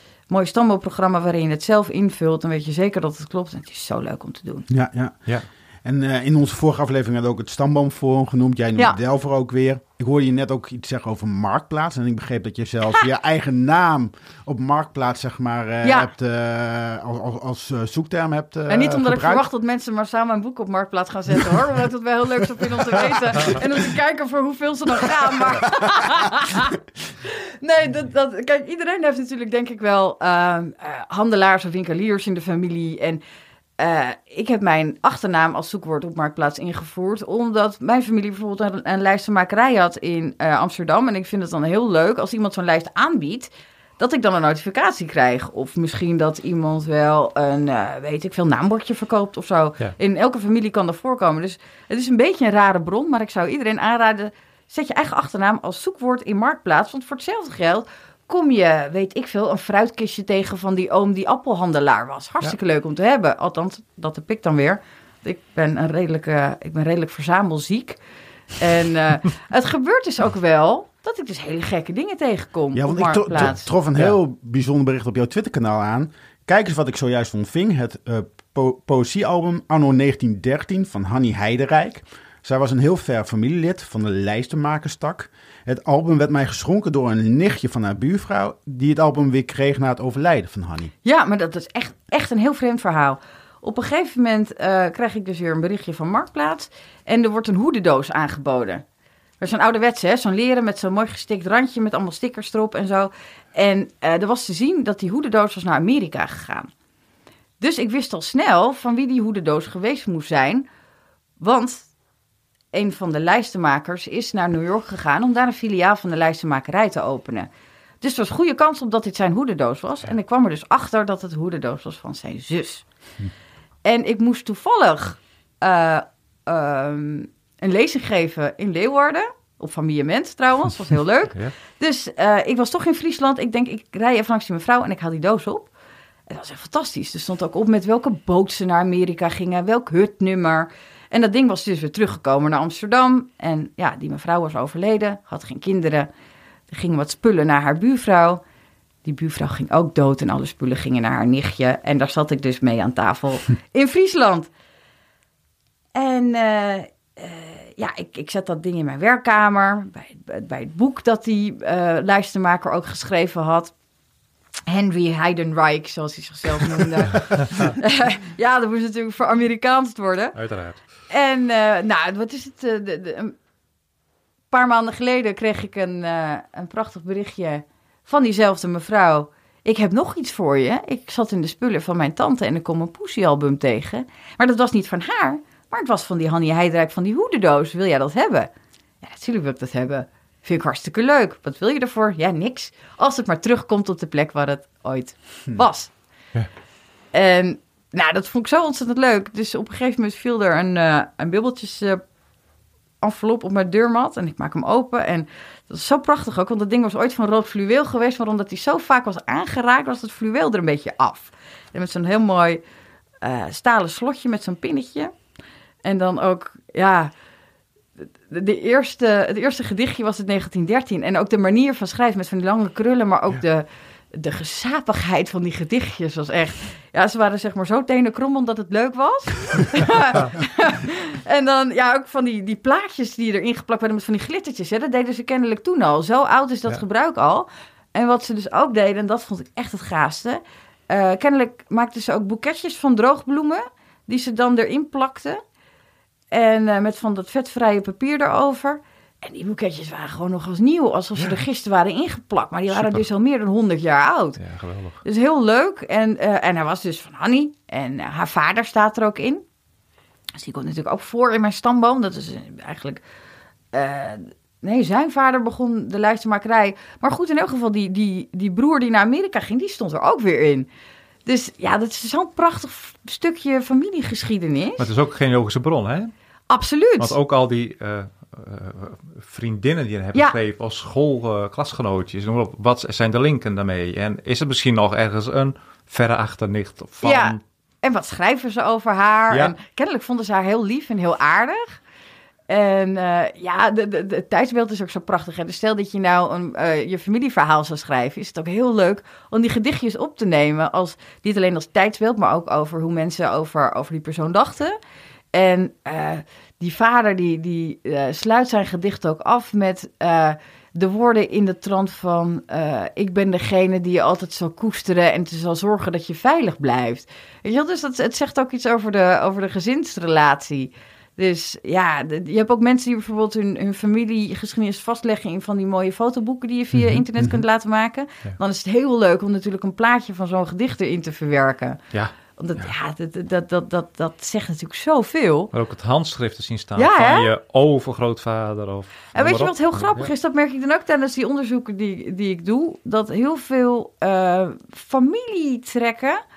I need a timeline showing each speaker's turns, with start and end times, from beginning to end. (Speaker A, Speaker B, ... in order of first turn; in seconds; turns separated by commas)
Speaker A: 0.3-4.7, Speaker B: 4.7-19.5, Speaker A: 15.8-16.1, Speaker A: 18.7-33.2, Speaker B: 23.0-23.4, Speaker A: 33.8-68.0, Speaker A: 68.6-73.7, Speaker B: 72.7-90.9, Speaker A: 91.0-98.8, Speaker A: 99.4-106.7, Speaker A: 107.6-110.7, Speaker A: 111.4-111.9, Speaker A: 112.7-117.5, Speaker A: 118.0-122.9, Speaker A: 123.8-135.7, Speaker A: 136.3-146.1, Speaker A: 146.7-148.4, Speaker A: 149.0-154.5, Speaker A: 155.9-163.7, Speaker A: 164.7-170.4, Speaker C: 170.3-170.8, Speaker A: 171.1-173.3, Speaker A: 174.5-188.5, Speaker A: 189.0-195.9, Speaker A: 197.1-202.1, Speaker A: 203.0-212.6, Speaker A: 213.2-215.1, Speaker A: 215.8-217.1, Speaker A: 218.3-245.4, Speaker A: 246.3-254.4, Speaker C: 252.7-253.0, Speaker C: 254.4-255.0, Speaker A: 255.0-259.4, Speaker A: 260.4-263.0, Speaker A: 263.7-270.7, Speaker A: 271.3-274.9, Speaker C: 274.8-276.1, Speaker A: 276.5-277.1, Speaker C: 277.0-287.4, Speaker A: 287.0-291.8, Speaker A: 292.5-304.8, Speaker A: 305.3-331.8, Speaker C: 331.9-332.7, Speaker A: 332.4-335.5, Speaker C: 335.5-340.1, Speaker A: 336.8-337.3, Speaker A: 339.1-346.2